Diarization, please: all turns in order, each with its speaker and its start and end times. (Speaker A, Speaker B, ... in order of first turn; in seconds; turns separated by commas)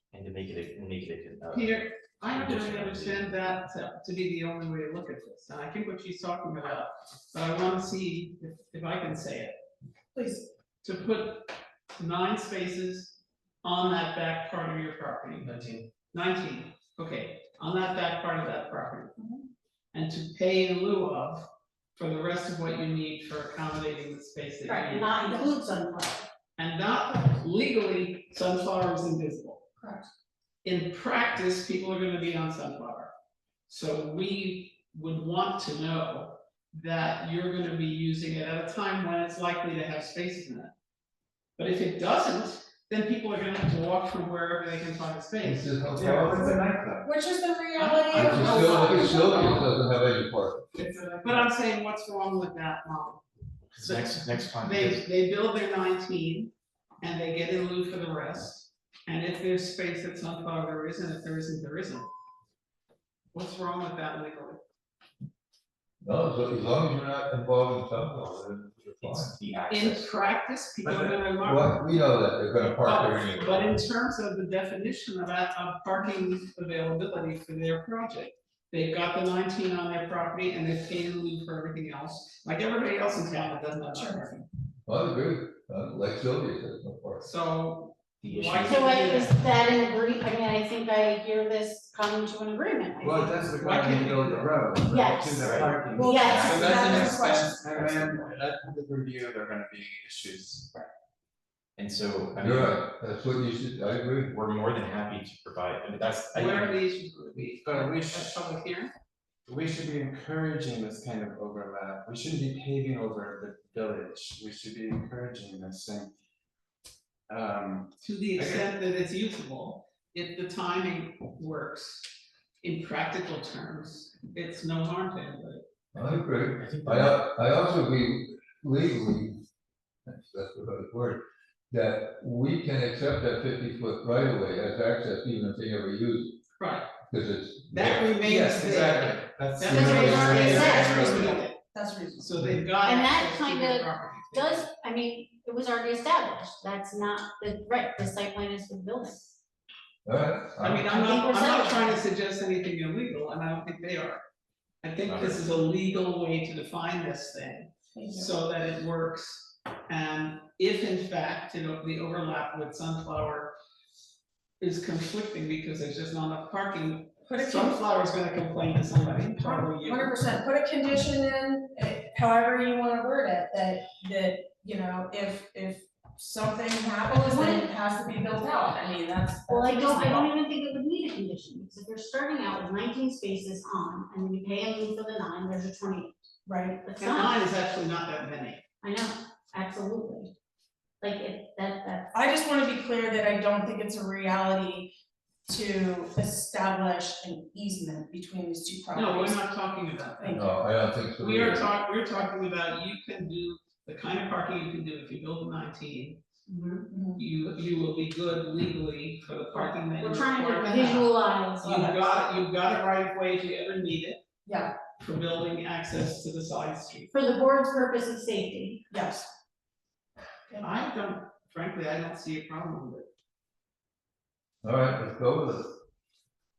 Speaker A: 0.1-3.4, Speaker B: 1.5-9.6, Speaker C: 10.1-10.4, Speaker B: 10.8-15.5, Speaker D: 15.5-15.8, Speaker B: 16.1-19.1, Speaker C: 19.2-19.4, Speaker B: 19.9-21.4, Speaker B: 21.9-25.5, Speaker E: 24.6-26.2, Speaker B: 26.6-29.6, Speaker C: 29.8-30.1, Speaker B: 30.6-33.1, Speaker B: 33.7-40.7, Speaker B: 41.6-46.2, Speaker F: 45.4-46.5, Speaker D: 45.9-47.1, Speaker C: 47.0-49.6, Speaker B: 47.8-49.6, Speaker F: 48.1-50.6, Speaker D: 50.8-51.4, Speaker B: 51.2-53.2, Speaker A: 53.7-55.0, Speaker B: 53.8-62.1, Speaker B: 63.3-64.6, Speaker F: 66.0-69.3, Speaker A: 69.0-70.1, Speaker B: 69.7-71.8, Speaker F: 70.8-73.8, Speaker B: 72.8-84.4, Speaker C: 83.9-84.2, Speaker F: 84.9-87.2, Speaker B: 87.2-89.3, Speaker A: 88.2-88.8, Speaker E: 88.7-93.4, Speaker D: 93.0-100.7, Speaker B: 93.5-94.6, Speaker E: 94.8-96.8, Speaker A: 95.5-95.8, Speaker C: 95.9-98.2, Speaker A: 96.6-98.3, Speaker A: 101.8-102.8, Speaker F: 102.3-104.3, Speaker A: 104.3-106.8, Speaker B: 106.3-108.9, Speaker D: 107.6-108.3, Speaker D: 109.5-116.1, Speaker D: 117.3-118.7, Speaker B: 118.0-122.1, Speaker B: 122.6-125.6, Speaker F: 125.9-129.4, Speaker A: 126.6-127.1, Speaker F: 130.1-131.2, Speaker F: 131.7-136.4, Speaker B: 136.6-136.9, Speaker F: 137.1-139.1, Speaker B: 137.7-141.6, Speaker D: 138.2-141.1, Speaker F: 139.6-141.4, Speaker E: 139.7-141.0, Speaker C: 140.9-141.2, Speaker C: 141.7-142.3, Speaker B: 142.2-144.7, Speaker E: 142.8-149.4, Speaker F: 150.0-150.9, Speaker B: 150.6-154.2, Speaker E: 150.9-152.0, Speaker B: 154.8-163.5, Speaker A: 155.1-155.4, Speaker C: 157.9-158.3, Speaker B: 164.6-170.2, Speaker C: 167.2-167.8, Speaker C: 169.4-180.3, Speaker E: 177.3-177.6, Speaker E: 179.5-186.1, Speaker C: 186.4-186.8, Speaker E: 186.8-187.4, Speaker B: 187.0-188.6, Speaker E: 188.8-190.3, Speaker E: 191.0-192.1, Speaker C: 192.1-194.9, Speaker C: 195.5-199.4, Speaker B: 198.9-200.4, Speaker C: 200.2-200.6, Speaker F: 200.3-201.7, Speaker B: 201.2-206.2, Speaker E: 206.5-206.8, Speaker C: 206.9-207.2, Speaker B: 207.2-211.1, Speaker E: 209.8-211.7, Speaker B: 211.6-214.2, Speaker C: 211.6-212.0, Speaker C: 214.4-214.8, Speaker B: 214.9-217.1, Speaker E: 217.1-218.8, Speaker C: 218.9-219.3, Speaker B: 220.6-223.1, Speaker F: 224.6-225.8